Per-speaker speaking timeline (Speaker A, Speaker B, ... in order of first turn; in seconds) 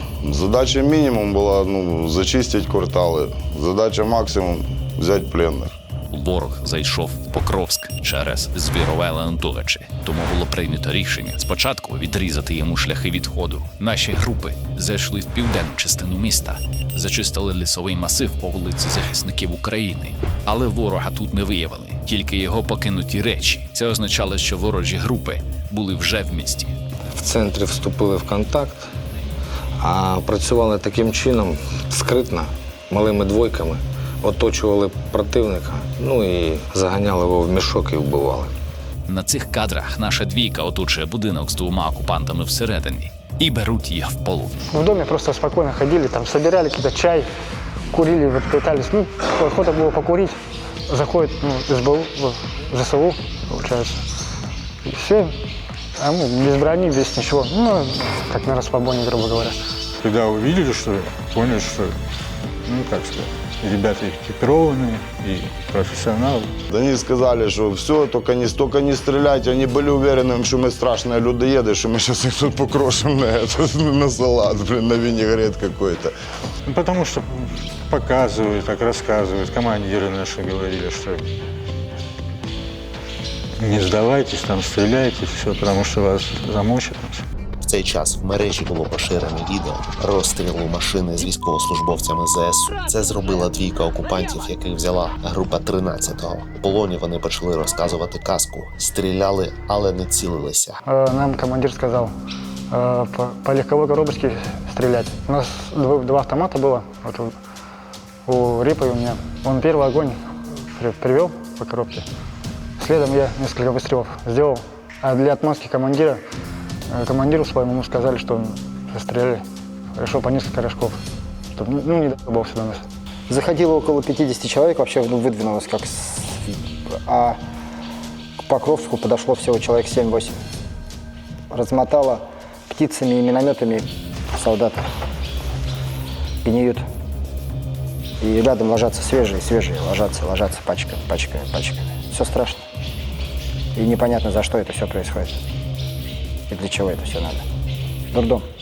Speaker A: 0.2-5.7, 66.7-76.1
Speaker B: 6.1-26.7, 39.1-44.5
Speaker C: 27.1-28.9, 29.8-38.5
Speaker D: 44.7-47.2, 47.9-50.4, 50.9-54.0, 54.9-55.3, 56.0-59.5, 100.9-102.1, 102.7-107.3, 108.3-110.2, 110.7-112.0, 112.8-116.2, 116.9-119.4, 120.0-121.0, 121.5-122.8
Speaker E: 60.0-62.0, 62.6-66.5, 76.7-81.3, 83.6-87.2
Speaker F: 87.6-100.8
Speaker G: 123.3-126.5, 127.0-127.4, 128.4-130.4, 131.5-134.8, 136.4-136.8, 138.2-142.6, 143.8-145.3, 146.5-147.4, 148.1-148.4